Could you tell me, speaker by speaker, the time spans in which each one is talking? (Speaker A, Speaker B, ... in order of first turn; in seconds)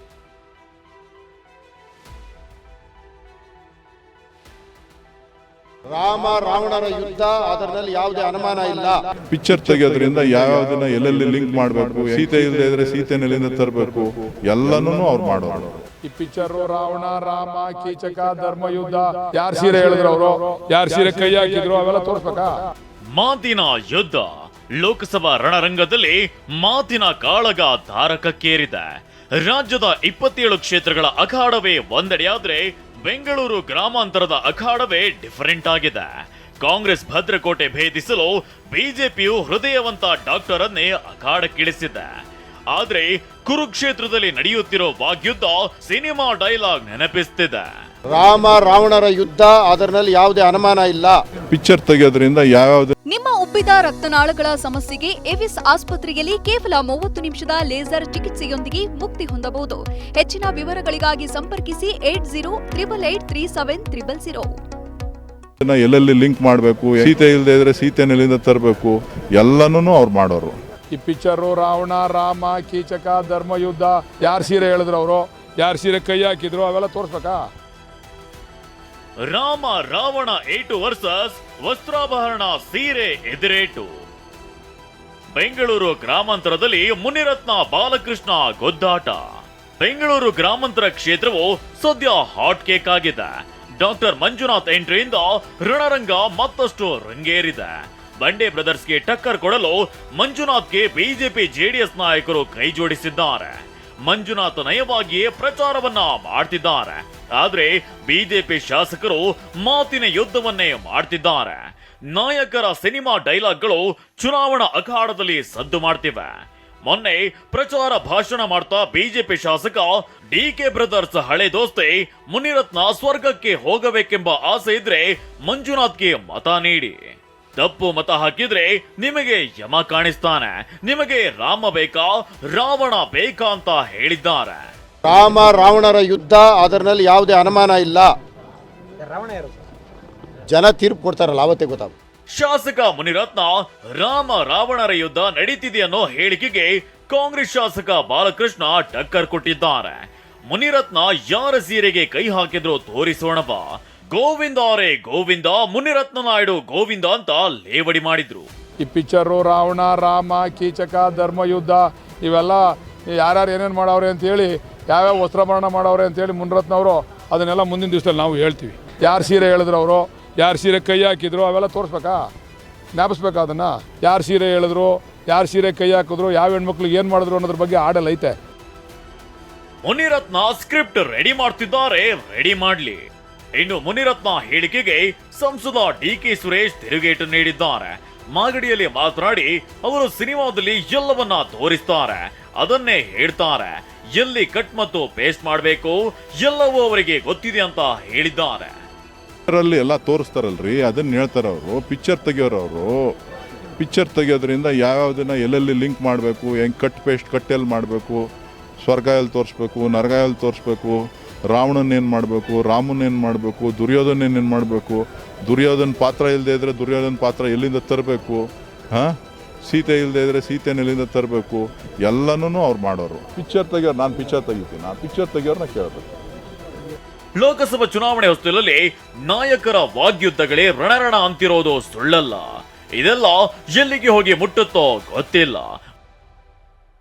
Speaker A: 5.9-9.0, 48.1-51.2, 135.0-138.1, 140.5-141.9
Speaker B: 9.3-15.8, 51.5-53.0, 65.6-70.6, 199.5-203.1, 203.8-208.3, 208.8-211.0, 211.5-226.1
Speaker C: 16.0-22.7, 70.9-77.5, 158.8-172.3, 172.9-178.4
Speaker D: 23.1-42.1, 42.7-47.7, 79.2-83.9, 85.3-89.3, 89.8-134.7, 142.3-158.5, 179.8-198.8, 227.4-235.7
Speaker E: 53.1-64.5